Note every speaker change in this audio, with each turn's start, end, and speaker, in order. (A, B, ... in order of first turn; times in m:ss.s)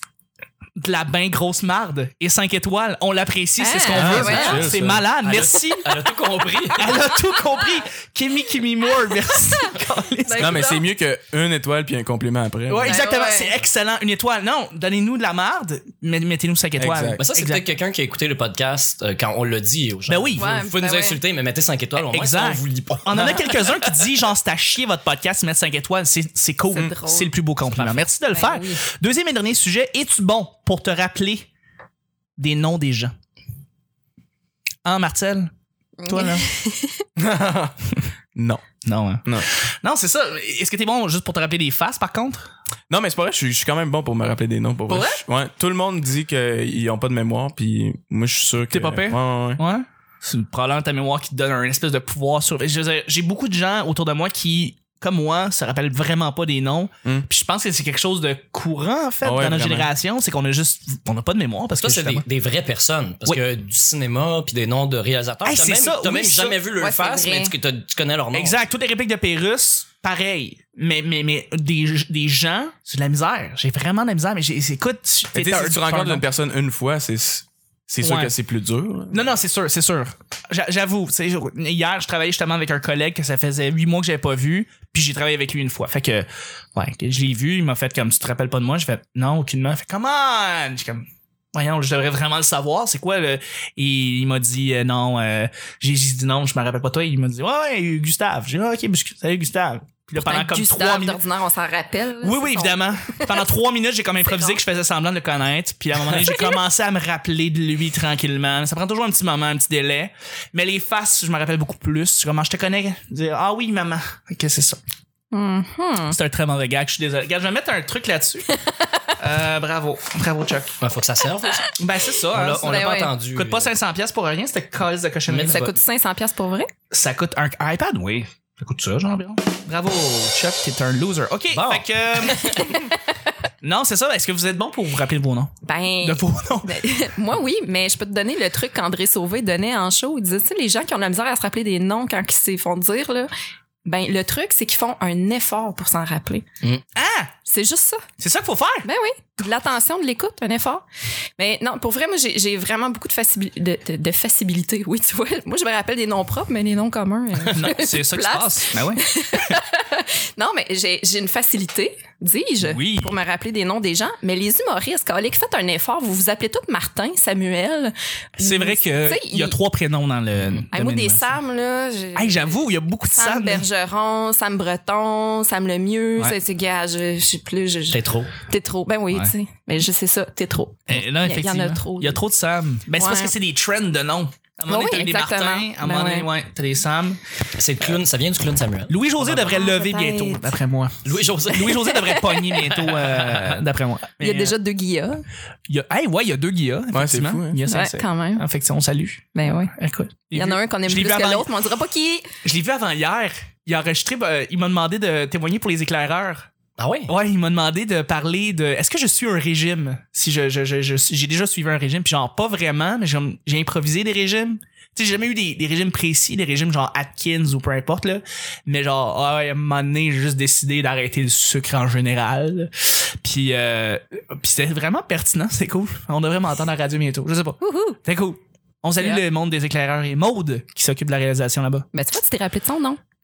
0:00.8-0:06.0 A
0:03.6-0:04.7 B
0:03.9-0:05.0 C
0:05.2-0:07.0 D
0:06.8-0:10.7 A
0:10.2-0:10.8 B
0:10.4-0:13.0 C
0:12.7-0:17.6 A
0:12.8-0:13.5 B
0:16.8-0:17.2 C
0:17.2-0:23.8 D
0:20.1-0:20.5 A
0:20.4-0:21.2 B
0:22.0-0:31.5 A
0:26.7-0:27.3 B
0:27.7-0:28.0 D
0:28.3-0:28.8 B
0:32.4-0:33.1 A
0:34.8-0:35.5 A
0:36.0-0:37.0 B
0:36.1-0:36.4 A
0:37.2-0:37.8 C
0:38.3-0:38.6 C
0:38.8-0:42.5 A
0:42.9-0:49.6 C
0:48.7-1:02.2 A
0:59.2-0:59.9 C
1:01.8-1:08.6 D
1:05.4-1:06.6 A
1:06.8-1:07.5 B
1:08.3-1:16.2 A
1:15.3-1:19.3 C
1:18.0-1:18.3 A
1:19.1-1:41.2 A
1:40.2-1:43.4 B
1:42.2-1:54.8 A
1:44.3-1:44.6 B
1:46.1-1:46.6 B
1:55.3-1:56.1 B
1:56.1-1:58.5 A
1:59.2-2:00.8 A
2:00.8-2:01.8 D
2:01.4-2:01.7 B
2:01.8-2:05.7 A
2:02.3-2:03.7 D
2:02.5-2:03.1 B
2:05.3-2:05.7 D
2:05.4-2:06.7 B
2:06.9-2:12.7 A
2:11.5-2:12.8 D
2:13.6-2:16.8 A
2:15.6-2:23.3 B
2:23.8-2:26.4 B
2:26.9-2:27.3 A
2:27.5-2:28.0 B
2:28.2-2:28.9 A
2:28.8-2:30.8 B
2:31.4-2:49.6 B
2:37.5-2:39.6 A
2:42.6-2:43.1 A
2:48.4-2:51.3 A
2:50.7-3:02.2 B
2:52.2-2:53.7 A
2:57.9-2:58.3 D
3:00.9-3:07.2 A
3:03.0-3:03.3 B
3:04.7-3:06.3 B
3:07.6-3:09.0 D
3:08.9-3:14.5 A
3:09.4-3:10.5 B
3:11.0-3:12.1 D
3:11.6-3:12.6 B
3:12.7-3:13.6 D
3:14.2-3:15.2 B
3:15.7-3:21.5 A
3:16.9-3:17.6 C
3:17.7-3:18.4 B
3:19.3-3:19.7 B
3:20.3-3:22.3 B
3:22.4-3:26.5 A
3:26.8-3:27.1 D
3:27.1-3:51.9 A
3:47.6-3:48.0 B
3:51.9-3:53.0 B